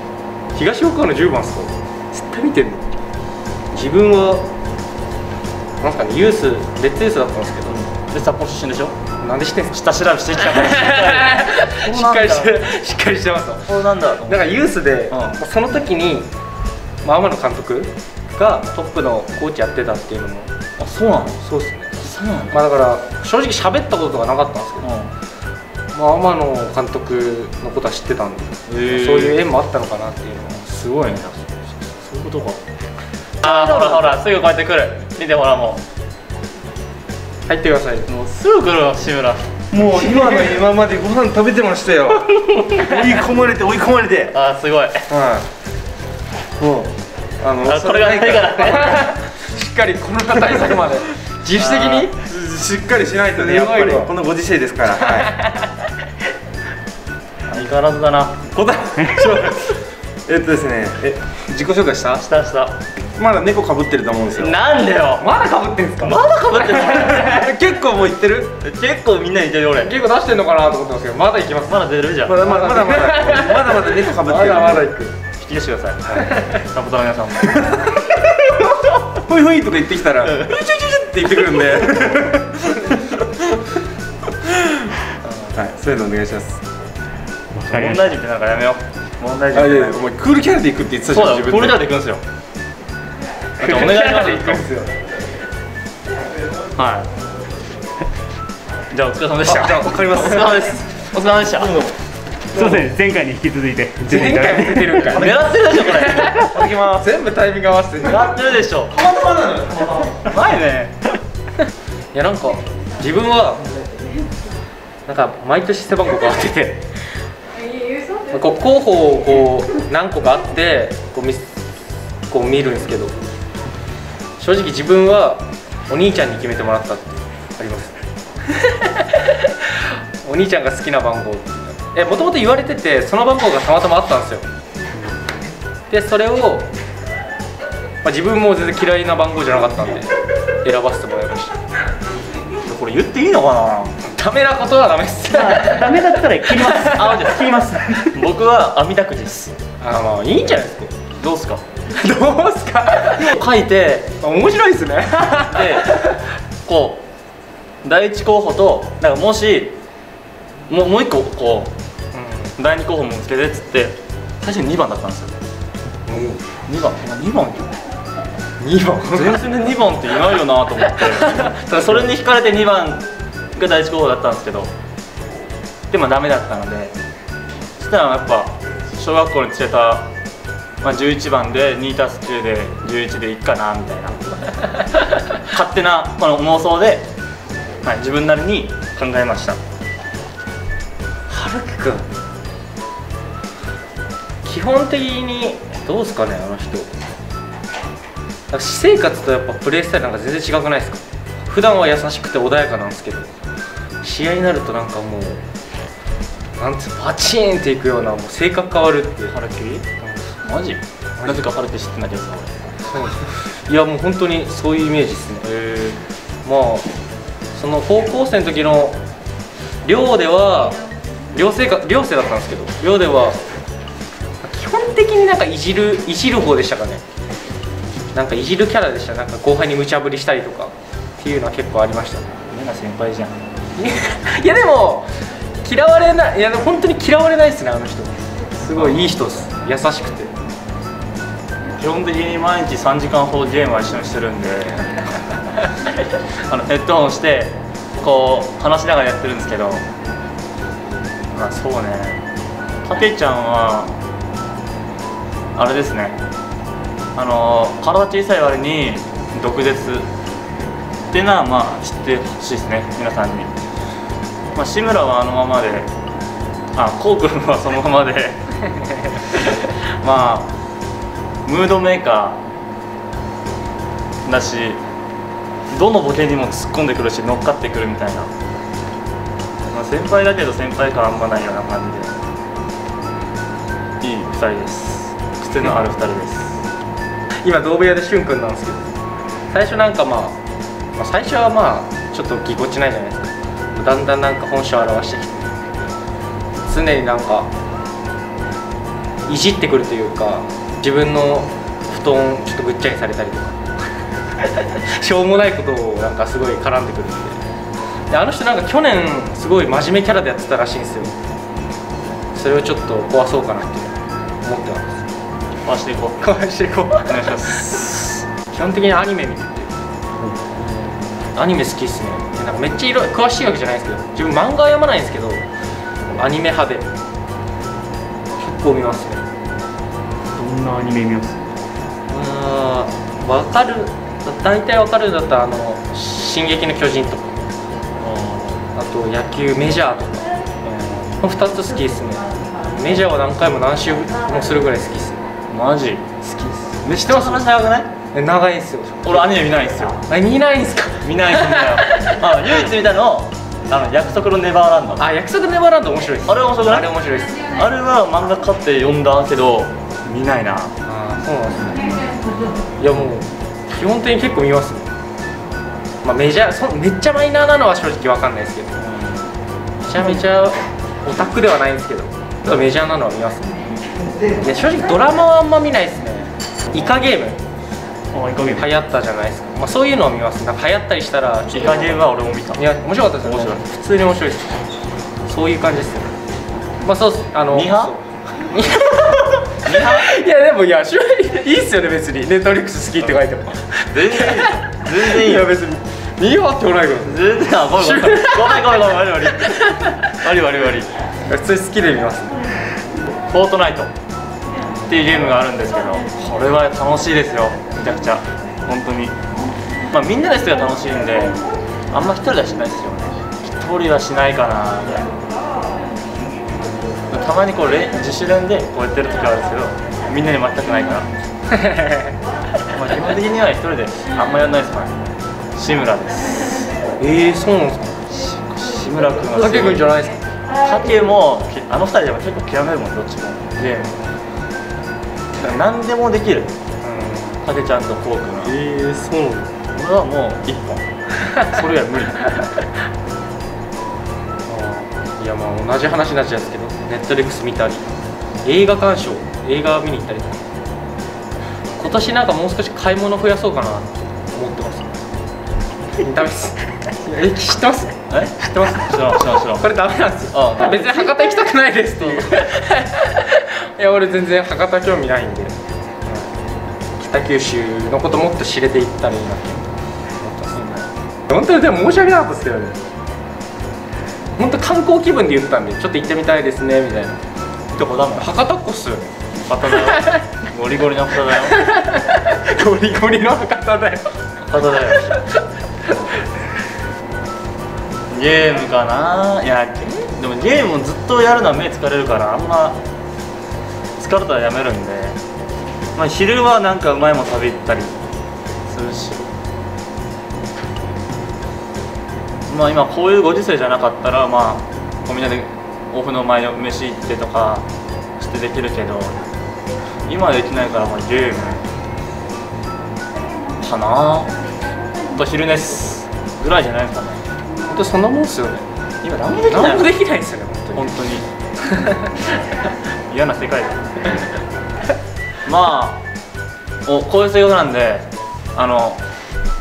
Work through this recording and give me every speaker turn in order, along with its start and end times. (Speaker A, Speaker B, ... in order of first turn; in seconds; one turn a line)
Speaker A: 0.5-2.9
Speaker A: 3.7-4.5
Speaker A: 5.8-7.8
Speaker B: 7.7-8.9
Speaker A: 9.2-9.8
Speaker B: 9.7-12.7
Speaker A: 10.4-16.3
Speaker B: 13.7-14.5
Speaker B: 15.1-15.4
Speaker A: 17.0-20.5
Speaker B: 20.8-21.4
Speaker A: 21.4-24.9
Speaker B: 22.0-22.6
Speaker B: 24.8-25.1
Speaker A: 25.9-30.7
Speaker B: 28.7-29.4
Speaker B: 30.6-32.6
Speaker B: 33.4-35.8
Speaker A: 33.4-34.2
Speaker A: 37.5-38.1
Speaker B: 38.1-39.5
Speaker C: 39.7-44.3
Speaker B: 44.3-45.1
Speaker C: 45.1-45.4
Speaker C: 46.6-48.8
Speaker B: 47.6-49.0
Speaker A: 48.6-52.2
Speaker B: 51.5-52.1
Speaker C: 52.1-55.3
Speaker A: 53.3-54.1
Speaker A: 55.0-55.9
Speaker B: 57.5-58.5
Speaker C: 58.7-62.2
Speaker B: 62.1-62.8
Speaker C: 63.2-64.5
Speaker B: 64.3-65.3
Speaker A: 65.2-66.2
Speaker B: 66.0-67.3
Speaker C: 66.9-68.5
Speaker B: 68.5-69.9
Speaker A: 69.8-75.1
Speaker B: 71.7-72.4
Speaker C: 72.2-74.9
Speaker B: 75.4-77.8
Speaker A: 76.1-76.6
Speaker C: 77.6-78.6
Speaker C: 79.1-83.5
Speaker A: 81.1-81.6
Speaker C: 85.5-86.6
Speaker D: 87.6-88.1
Speaker B: 87.6-90.0
Speaker C: 89.5-91.8
Speaker B: 91.1-92.2
Speaker A: 93.6-94.9
Speaker B: 93.6-94.6
Speaker B: 96.8-97.1
Speaker B: 98.9-101.9
Speaker A: 99.5-100.7
Speaker C: 101.6-101.9
Speaker D: 102.5-105.1
Speaker A: 104.1-108.3
Speaker B: 105.1-106.8
Speaker B: 108.0-109.0
Speaker C: 108.9-110.1
Speaker B: 110.2-111.1
Speaker A: 112.1-113.8
Speaker A: 115.1-116.9
Speaker A: 118.2-121.6
Speaker A: 122.2-123.1
Speaker A: 124.4-128.0
Speaker A: 128.5-134.4
Speaker A: 135.9-136.7
Speaker A: 138.0-141.6
Speaker B: 142.6-143.9
Speaker A: 144.0-147.1
Speaker D: 145.3-147.9
Speaker B: 146.6-149.6
Speaker A: 149.8-150.9
Speaker B: 151.2-151.6
Speaker A: 151.9-153.4
Speaker B: 153.1-154.1
Speaker A: 154.2-156.2
Speaker B: 155.4-156.0
Speaker B: 156.6-157.0
Speaker B: 157.8-159.8
Speaker B: 160.7-161.7
Speaker A: 162.1-162.6
Speaker B: 162.6-165.4
Speaker A: 166.1-166.4
Speaker B: 166.7-167.7
Speaker A: 168.6-169.4
Speaker B: 169.1-174.7
Speaker A: 171.0-172.0
Speaker B: 175.9-176.9
Speaker B: 177.8-180.1
Speaker B: 180.8-184.2
Speaker B: 185.4-187.0
Speaker B: 187.8-189.6
Speaker A: 191.3-192.1
Speaker A: 194.4-197.0
Speaker A: 198.5-203.3
Speaker A: 204.0-205.4
Speaker A: 206.6-209.3
Speaker B: 209.3-209.9
Speaker B: 210.4-213.2
Speaker A: 212.9-215.5
Speaker B: 215.4-216.0
Speaker A: 216.4-216.9
Speaker A: 217.5-219.0
Speaker A: 219.8-220.8
Speaker A: 221.3-223.4
Speaker A: 224.4-227.0
Speaker A: 228.1-232.3
Speaker B: 232.5-233.4
Speaker A: 233.8-235.1
Speaker A: 235.6-240.3
Speaker B: 238.7-239.1
Speaker B: 241.8-245.3
Speaker B: 246.5-249.8
Speaker B: 251.3-252.2
Speaker B: 252.8-253.9
Speaker B: 255.6-256.2
Speaker B: 257.2-260.1
Speaker B: 261.1-263.5
Speaker B: 264.5-265.9
Speaker B: 266.7-270.5
Speaker B: 271.4-272.4
Speaker B: 274.2-274.8
Speaker B: 275.7-278.3
Speaker B: 279.7-282.2
Speaker B: 284.0-286.6
Speaker A: 287.4-288.9
Speaker A: 289.5-290.4
Speaker A: 290.9-295.9
Speaker A: 296.6-297.5
Speaker A: 299.3-303.6
Speaker A: 304.4-307.4
Speaker A: 308.1-311.2
Speaker A: 312.3-315.1
Speaker B: 315.6-316.3
Speaker A: 316.2-317.6
Speaker B: 317.0-318.2
Speaker A: 318.4-319.7
Speaker B: 320.2-321.0
Speaker A: 321.2-325.4
Speaker A: 326.1-326.9
Speaker A: 328.4-329.3
Speaker B: 330.4-331.5
Speaker A: 332.1-337.4
Speaker B: 338.0-338.6
Speaker A: 338.7-340.3
Speaker B: 340.6-341.2
Speaker A: 341.2-345.2
Speaker B: 345.5-346.1
Speaker A: 346.2-347.4
Speaker B: 346.8-347.9
Speaker A: 348.1-349.4
Speaker B: 349.0-350.0
Speaker A: 350.1-352.5
Speaker B: 351.0-355.0
Speaker A: 355.0-357.5
Speaker B: 356.3-356.9
Speaker B: 357.5-360.7
Speaker A: 360.8-362.0
Speaker A: 362.8-364.9
Speaker A: 366.0-368.7
Speaker B: 368.8-369.3
Speaker A: 369.8-373.6
Speaker A: 374.4-377.4
Speaker B: 378.1-378.7
Speaker A: 378.5-384.6
Speaker B: 381.5-382.6
Speaker B: 383.2-383.6
Speaker A: 385.3-386.1
Speaker A: 386.8-398.7
Speaker B: 387.5-387.9
Speaker B: 389.6-390.1
Speaker B: 393.9-395.5
Speaker B: 397.0-400.9
Speaker A: 399.4-399.9
Speaker A: 401.3-402.3
Speaker B: 403.3-403.9
Speaker B: 404.9-409.2
Speaker B: 409.9-411.4
Speaker B: 411.9-415.1
Speaker B: 417.1-421.1
Speaker A: 421.5-422.1
Speaker B: 422.7-426.7
Speaker A: 427.0-428.1
Speaker B: 428.1-429.9
Speaker A: 429.3-430.2
Speaker B: 430.6-434.1
Speaker B: 435.4-436.5
Speaker A: 436.8-437.4
Speaker B: 437.4-438.6
Speaker A: 438.4-439.6
Speaker B: 439.7-440.8
Speaker B: 441.4-442.4
Speaker A: 444.5-447.8
Speaker A: 448.4-450.4
Speaker A: 451.8-455.0
Speaker A: 456.0-458.0
Speaker B: 458.1-459.7
Speaker A: 459.6-465.6
Speaker B: 460.3-460.9
Speaker B: 462.0-462.4
Speaker A: 467.0-470.8
Speaker B: 470.6-470.8
Speaker A: 471.3-472.8
Speaker A: 474.4-477.2
Speaker B: 477.7-478.3
Speaker A: 478.1-479.1
Speaker B: 479.5-481.6
Speaker A: 481.4-484.1
Speaker B: 484.5-485.1
Speaker A: 484.8-486.2
Speaker B: 488.1-492.8
Speaker B: 494.0-495.2
Speaker B: 495.9-498.0
Speaker B: 498.7-499.3
Speaker B: 502.5-507.7
Speaker B: 508.2-509.2
Speaker B: 510.1-511.7
Speaker B: 513.6-514.4
Speaker B: 515.1-517.2
Speaker A: 517.7-518.6
Speaker B: 519.0-519.9
Speaker A: 519.5-520.9
Speaker B: 520.7-521.3
Speaker A: 521.7-522.1
Speaker B: 523.1-524.1
Speaker B: 525.4-526.0
Speaker B: 526.9-529.0